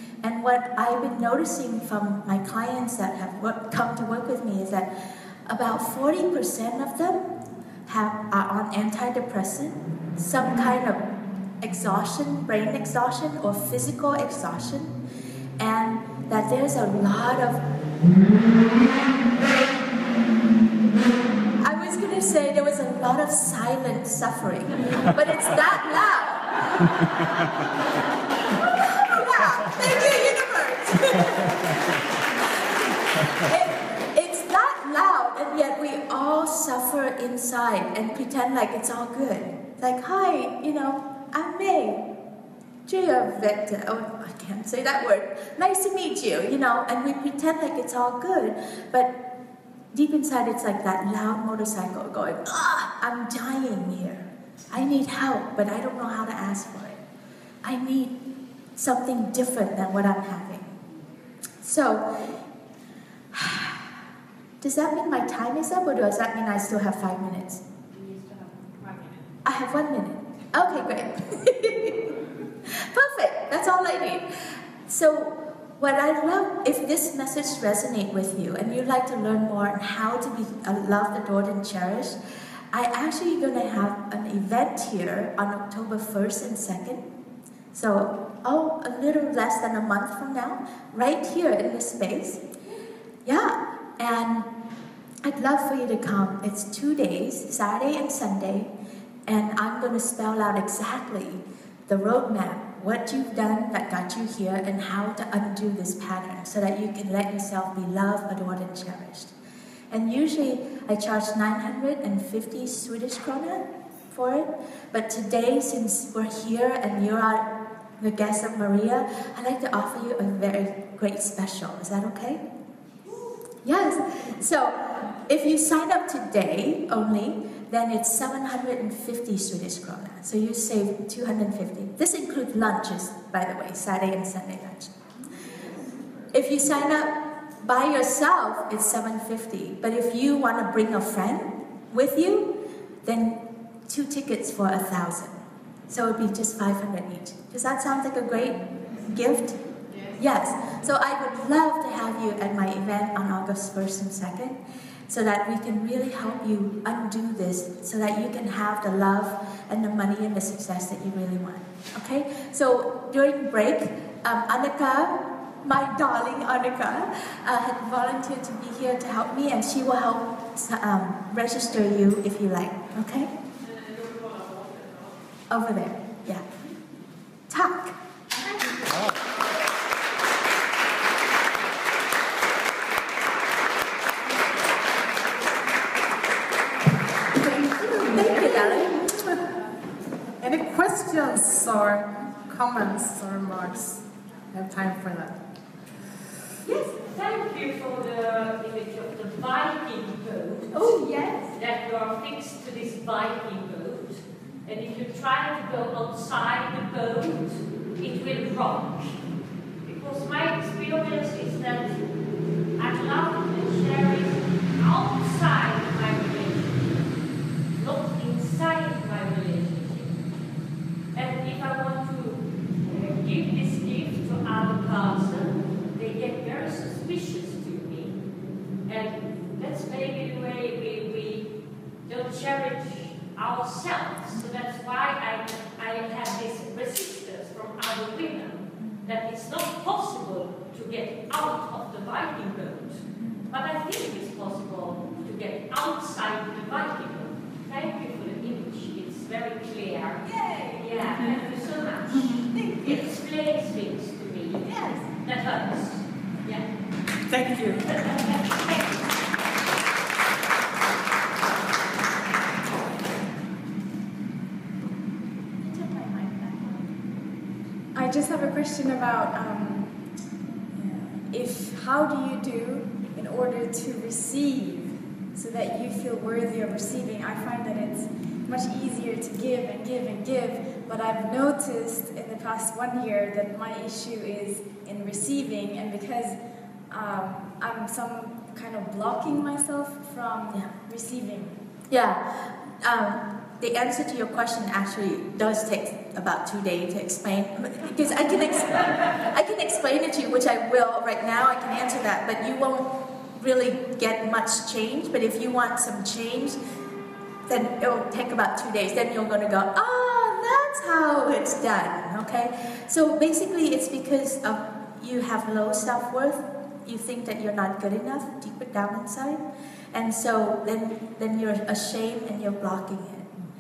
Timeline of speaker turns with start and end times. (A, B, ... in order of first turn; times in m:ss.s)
0:00.2-0:04.9 A
0:05.4-0:07.3 A
0:07.9-0:11.0 A
0:11.6-0:15.0 A
0:15.6-0:17.6 A
0:21.6-0:26.7 A
0:28.5-0:42.0 A
0:42.9-0:49.1 A
0:49.9-0:57.0 A
0:57.6-0:58.2 A
0:58.8-1:00.8 A
1:01.6-1:02.3 A
1:03.3-1:03.9 A
1:04.6-1:07.6 A
1:09.4-1:22.2 A
1:22.7-1:27.0 A
1:27.7-1:32.4 A
1:33.2-1:34.5 A
1:35.2-1:38.7 A
1:39.3-1:49.3 A
1:49.9-2:02.4 A
2:03.6-2:14.9 A
2:16.3-2:25.4 A
2:25.9-2:53.3 A
2:55.5-2:56.4 A
2:57.5-2:58.0 A
3:07.6-3:08.6 B
3:07.8-3:09.0 A
3:10.4-3:15.4 C
3:16.7-3:21.0 D
3:20.7-3:21.4 A
3:21.5-3:29.2 D
3:29.8-3:32.0 D
3:32.8-3:37.1 D
3:37.8-3:40.2 D
3:41.1-3:48.2 D
3:48.9-3:51.5 D
3:52.0-4:16.7 D
4:10.3-4:11.5 A
4:12.1-4:13.0 A
4:14.7-4:15.0 A
4:17.3-4:17.9 C
4:17.9-4:18.8 D
4:25.6-4:26.8 A
4:27.9-4:30.1 B
4:30.7-4:46.4 B
4:46.9-4:51.6 B
4:51.9-5:06.6 A
5:07.5-5:23.3 A